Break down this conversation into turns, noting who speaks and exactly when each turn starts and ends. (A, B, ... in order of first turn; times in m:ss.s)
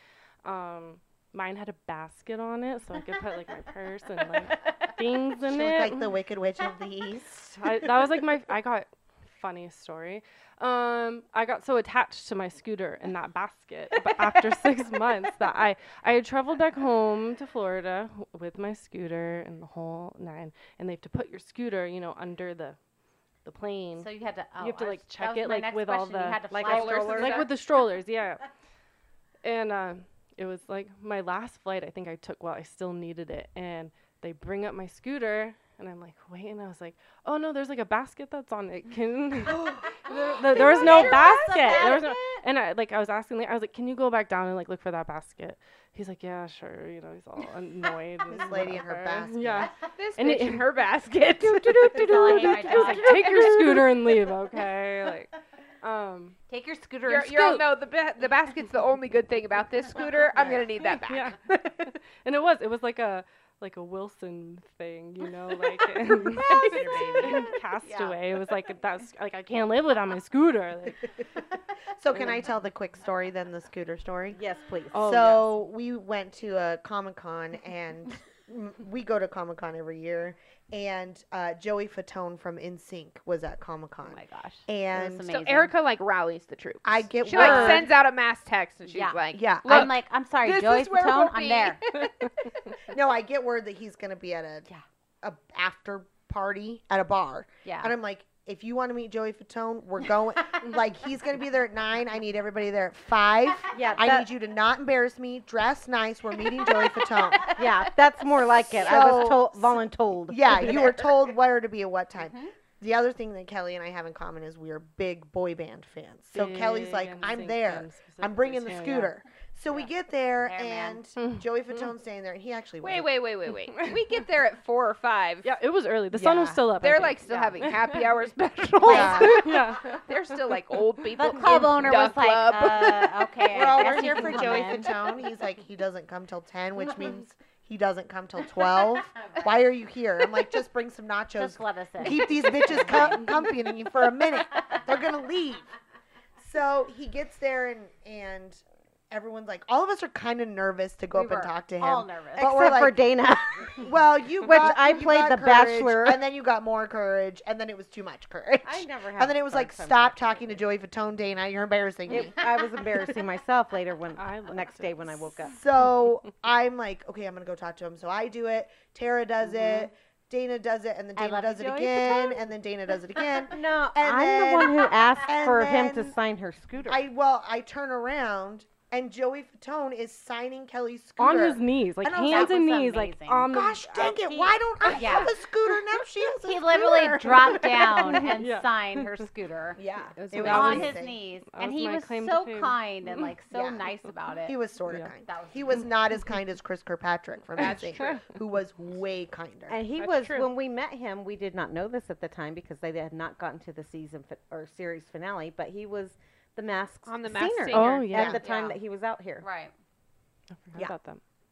0:00.4-0:06.1 A
0:05.4-0:07.9 B
0:07.6-0:22.8 A
0:23.4-0:24.1 A
0:24.0-0:27.4 C
0:24.6-0:28.4 A
0:26.5-0:27.4 D
0:26.6-0:27.6 E
0:29.4-0:56.4 A
0:39.5-0:41.8 B
0:40.6-0:42.4 C
0:48.3-0:49.7 B
0:50.0-0:53.9 E
0:51.9-0:53.5 C
0:56.5-0:57.6 C
0:57.0-1:01.3 E
0:57.4-0:57.6 A
1:00.8-1:11.1 A
1:06.6-1:07.4 B
1:11.9-1:14.4 B
1:14.3-1:15.2 D
1:14.9-1:15.4 A
1:14.9-1:25.2 B
1:24.1-1:24.5 E
1:24.5-1:25.7 C
1:25.2-1:32.3 E
1:26.8-1:27.9 B
1:27.3-1:27.9 C
1:28.9-1:31.8 C
1:29.3-1:29.9 B
1:32.0-1:32.3 A
1:32.9-1:34.7 B
1:35.2-1:47.6 B
1:37.6-1:37.9 C
1:43.7-1:44.3 D
1:47.5-1:51.1 D
1:48.7-2:03.1 B
1:52.2-1:52.5 C
1:56.3-1:59.1 A
2:00.4-2:01.0 C
2:01.2-2:01.9 A
2:02.8-2:05.5 E
2:03.7-2:04.1 A
2:05.4-2:08.0 A
2:06.2-2:06.5 C
2:06.8-2:13.3 E
2:07.3-2:07.5 C
2:08.8-2:09.5 B
2:08.8-2:10.0 A
2:11.1-2:14.9 C
2:13.5-2:25.7 B
2:21.3-2:23.3 C
2:26.4-2:33.0 B
2:31.1-2:32.7 C
2:32.4-2:33.8 D
2:33.7-2:42.4 B
2:34.4-2:36.2 D
2:38.6-2:40.6 D
2:42.1-2:45.6 D
2:44.2-2:45.2 A
2:45.5-2:56.2 B
2:51.2-2:52.4 C
2:53.5-2:57.0 D
2:56.9-3:02.6 B
3:01.2-3:04.4 A
3:02.2-3:03.5 C
3:03.5-3:08.3 B
3:04.9-3:05.3 C
3:06.4-3:09.8 C
3:08.1-3:09.1 A
3:09.8-3:11.2 B
3:10.2-3:10.9 E
3:10.3-3:10.9 A
3:10.4-3:14.6 C
3:11.5-3:13.3 A
3:13.5-3:13.9 B
3:14.4-3:19.8 B
3:15.2-3:15.9 C
3:17.6-3:18.2 E
3:19.7-3:29.4 D
3:19.9-3:20.5 E
3:27.0-3:28.5 E
3:27.7-3:28.4 A
3:28.1-3:28.4 B
3:28.4-3:28.8 C
3:29.4-3:29.7 C
3:30.6-3:31.2 A